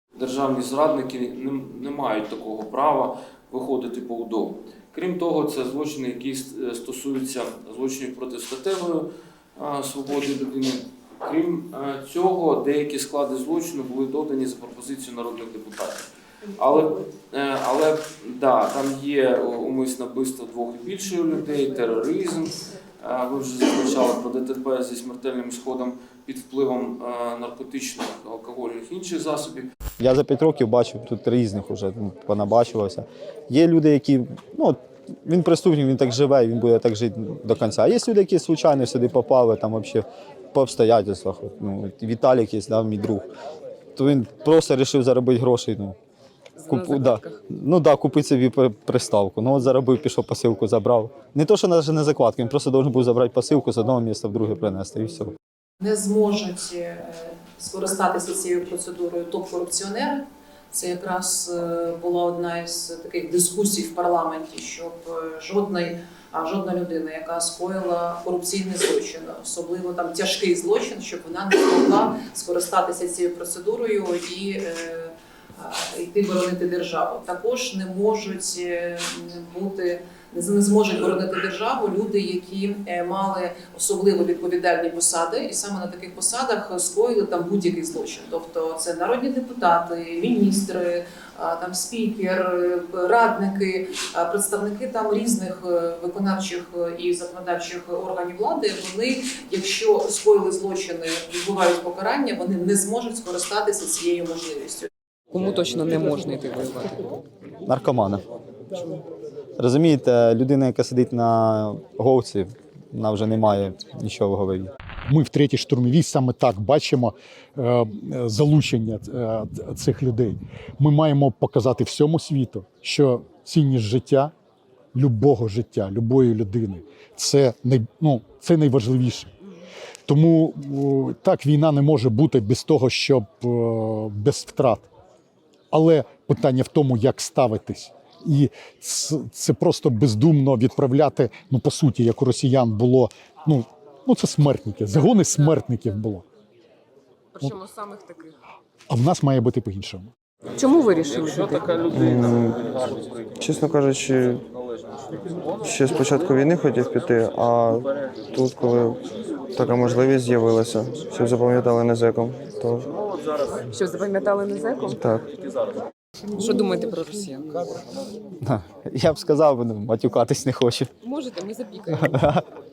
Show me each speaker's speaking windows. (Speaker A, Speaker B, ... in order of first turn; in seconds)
Speaker A: 0.1-29.7
Speaker B: 30.0-43.3, 44.0-46.0, 46.7-55.3, 107.6-108.2, 109.6-114.7, 168.4-170.9, 172.0-172.4
Speaker C: 46.6-47.4, 105.3-107.0, 147.3-148.3, 150.6-151.8, 163.6-165.0, 166.3-167.8, 171.0-172.2
Speaker D: 55.8-104.9
Speaker E: 115.1-124.3, 124.9-129.3, 130.1-134.9, 135.7-146.2, 148.9-150.1
Speaker F: 151.9-154.4, 155.6-159.0, 159.5-162.9, 165.0-165.3